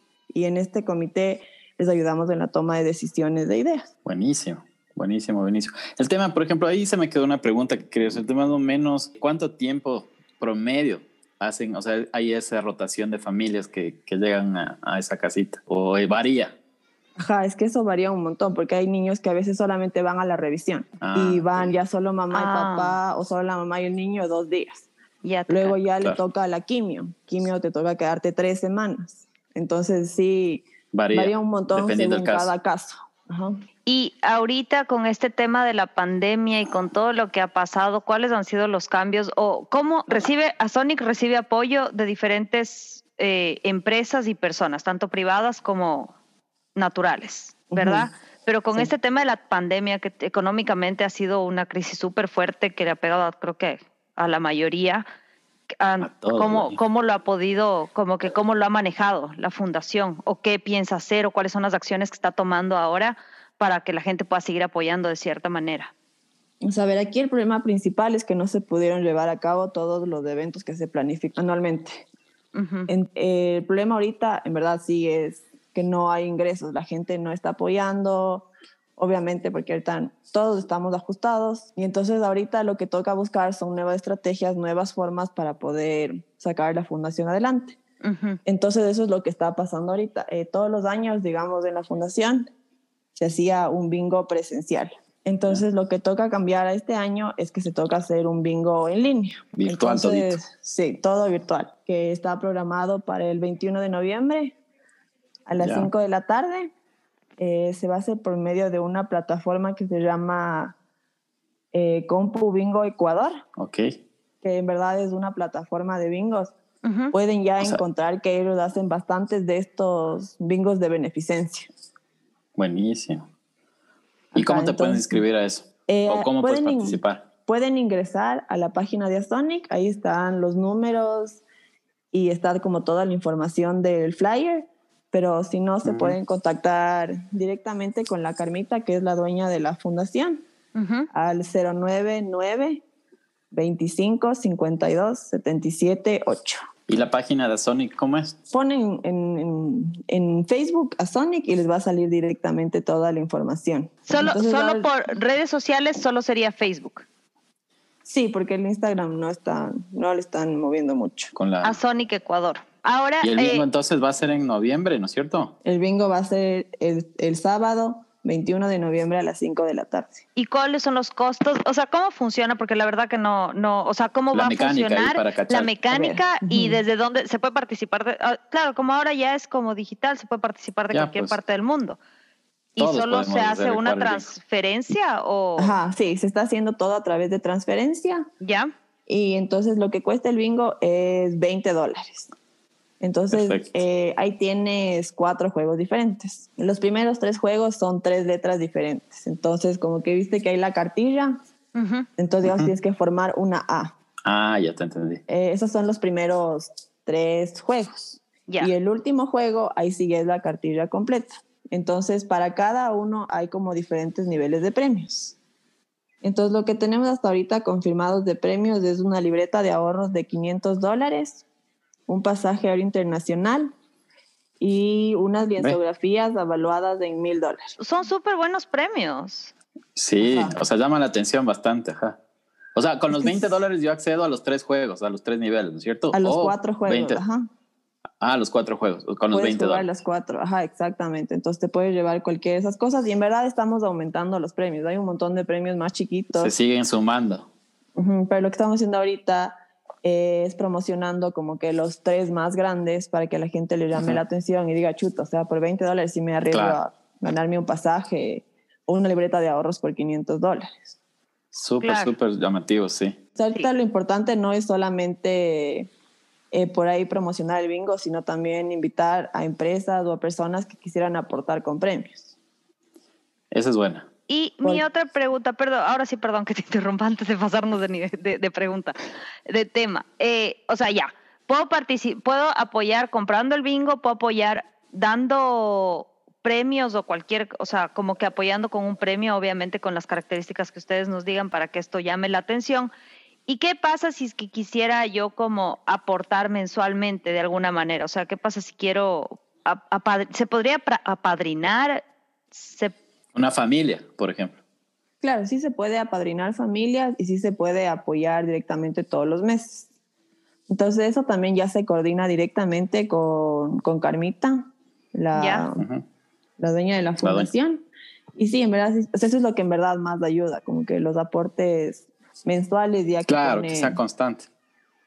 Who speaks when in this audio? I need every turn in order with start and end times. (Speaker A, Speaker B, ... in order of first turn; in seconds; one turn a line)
Speaker A: 0.3-3.9
Speaker B: 4.0-16.6
Speaker A: 17.2-24.9
Speaker B: 21.0-21.7
Speaker C: 22.3-23.0
Speaker C: 25.2-25.8
Speaker A: 25.5-33.6
Speaker B: 30.9-32.5
Speaker C: 33.9-46.1
Speaker C: 46.8-55.0
Speaker A: 47.7-48.1
Speaker C: 55.8-65.9
Speaker B: 56.0-56.8
Speaker A: 66.6-72.0
Speaker C: 72.5-72.9
Speaker A: 72.9-87.8
Speaker C: 88.0-88.4
Speaker A: 88.4-92.5
Speaker A: 93.1-104.5
Speaker B: 99.5-100.4
Speaker A: 105.5-106.7
Speaker B: 105.6-105.9
Speaker A: 107.4-110.8
Speaker A: 111.7-113.4
Speaker B: 113.6-114.0
Speaker A: 114.4-116.5
Speaker C: 116.8-117.1
Speaker A: 117.1-121.7
Speaker B: 122.5-123.2
Speaker A: 124.3-125.2
Speaker B: 124.3-127.2
Speaker A: 125.9-131.4
Speaker A: 132.1-140.4
Speaker B: 135.8-136.2
Speaker C: 140.7-141.1
Speaker A: 141.1-142.8
Speaker A: 143.5-146.7
Speaker B: 146.9-148.4
Speaker A: 148.5-154.9
Speaker C: 154.1-157.1
Speaker A: 158.0-161.3
Speaker B: 161.3-161.8
Speaker C: 161.6-163.7
Speaker B: 163.2-165.5
Speaker A: 165.6-170.2
Speaker C: 170.3-182.0
Speaker B: 174.3-175.7
Speaker A: 175.9-176.8
Speaker B: 180.9-181.3
Speaker B: 182.8-184.3
Speaker C: 182.8-185.8
Speaker A: 185.6-188.3
Speaker C: 188.4-188.7
Speaker A: 189.1-192.3
Speaker A: 193.0-201.4
Speaker B: 193.3-193.7
Speaker C: 201.7-202.1
Speaker A: 202.2-203.9
Speaker B: 202.4-202.7
Speaker B: 204.2-205.2
Speaker A: 205.3-215.3
Speaker A: 216.2-221.4
Speaker A: 222.1-223.7
Speaker A: 224.6-227.7
Speaker C: 227.8-229.5
Speaker B: 229.9-232.2
Speaker A: 230.2-230.6
Speaker B: 232.7-237.2
Speaker A: 233.1-233.6
Speaker A: 236.1-237.5
Speaker B: 238.2-239.9
Speaker A: 239.3-246.5
Speaker B: 246.3-247.5
Speaker A: 247.9-260.9
Speaker B: 256.5-256.8
Speaker B: 261.5-263.2
Speaker C: 261.8-262.1
Speaker A: 263.4-265.9
Speaker A: 266.5-272.3
Speaker B: 273.5-274.1
Speaker C: 274.3-278.9
Speaker C: 279.5-292.9
Speaker C: 293.5-302.0
Speaker C: 302.5-302.9
Speaker B: 303.3-304.6
Speaker A: 305.2-309.9
Speaker A: 310.7-315.8
Speaker C: 315.3-315.6
Speaker B: 315.8-316.0
Speaker A: 316.6-317.9
Speaker B: 317.2-317.5
Speaker A: 318.4-324.0
Speaker B: 323.3-324.5